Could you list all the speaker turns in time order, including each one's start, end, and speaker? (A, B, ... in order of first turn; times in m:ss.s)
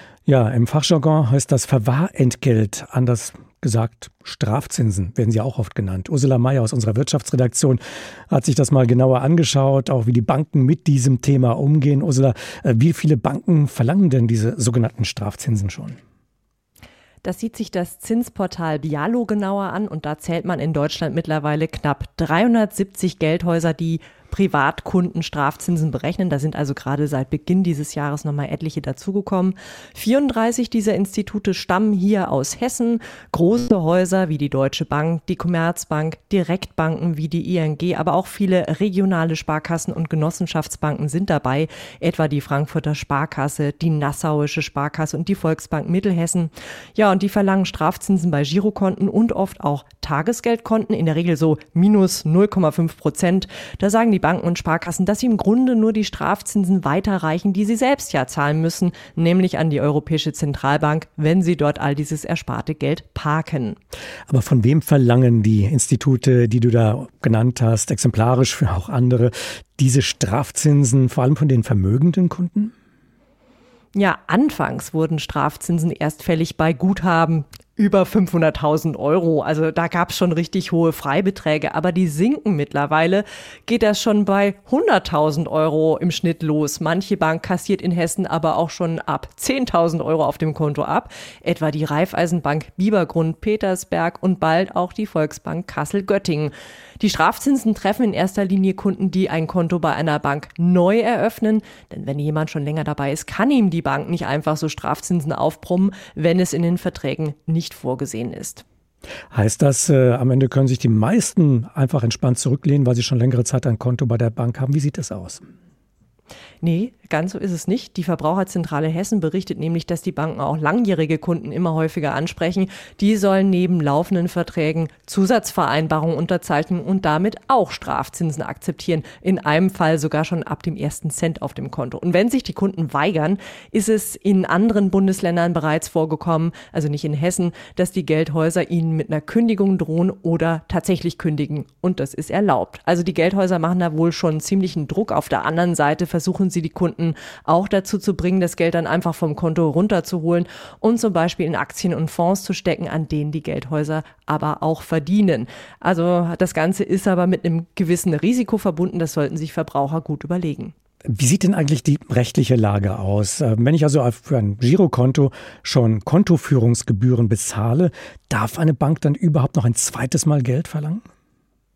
0:00.3-0:16.0 A
0:17.2-1:03.8 B
1:04.3-1:12.7 A
1:13.9-1:48.6 B
1:49.3-1:55.4 A
1:56.6-2:40.7 B
2:41.1-2:51.0 A